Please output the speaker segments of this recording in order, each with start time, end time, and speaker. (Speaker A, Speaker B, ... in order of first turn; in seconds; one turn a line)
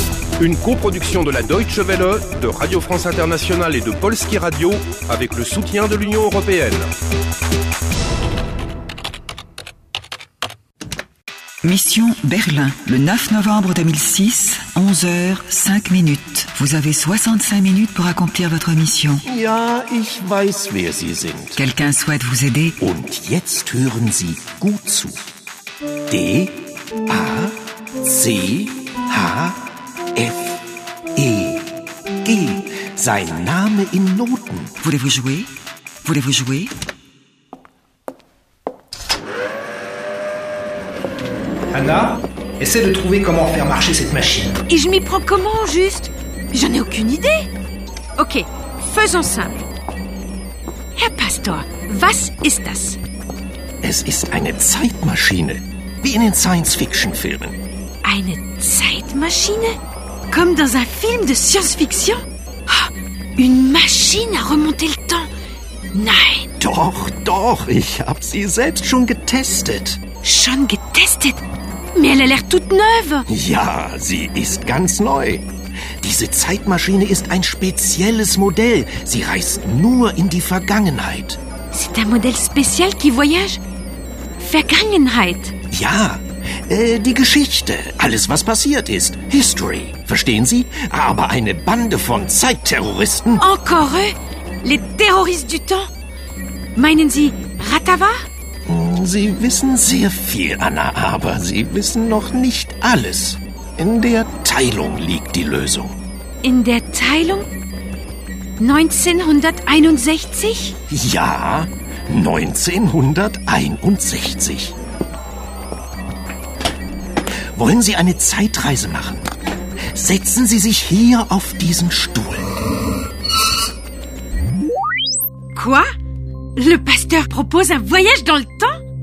Speaker A: 0.4-6.9
Speaker B: 11.6-19.2
Speaker C: 19.3-21.6
Speaker B: 21.6-22.8
Speaker C: 22.8-25.2
Speaker C: 26.1-30.6
Speaker C: 31.2-31.7
Speaker C: 32.2-34.8
Speaker B: 34.8-35.5
Speaker B: 36.0-36.7
Speaker D: 41.7-44.6
Speaker E: 44.7-47.5
Speaker E: 48.2-49.6
Speaker E: 51.0-53.0
Speaker C: 53.8-57.6
Speaker E: 58.0-59.8
Speaker E: 60.3-65.3
Speaker E: 65.9-66.5
Speaker C: 66.6-70.0
Speaker E: 70.2-71.4
Speaker E: 72.0-73.3
Speaker C: 73.3-75.5
Speaker C: 76.0-81.4
Speaker E: 81.7-83.6
Speaker E: 84.4-85.5
Speaker C: 85.7-93.5
Speaker E: 93.4-95.9
Speaker E: 96.8-98.1
Speaker C: 98.7-106.0
Speaker E: 106.4-107.5
Speaker E: 108.6-110.8
Speaker C: 110.9-114.8
Speaker C: 117.5-119.3
Speaker C: 119.9-122.6
Speaker E: 125.5-125.8
Speaker E: 126.6-128.8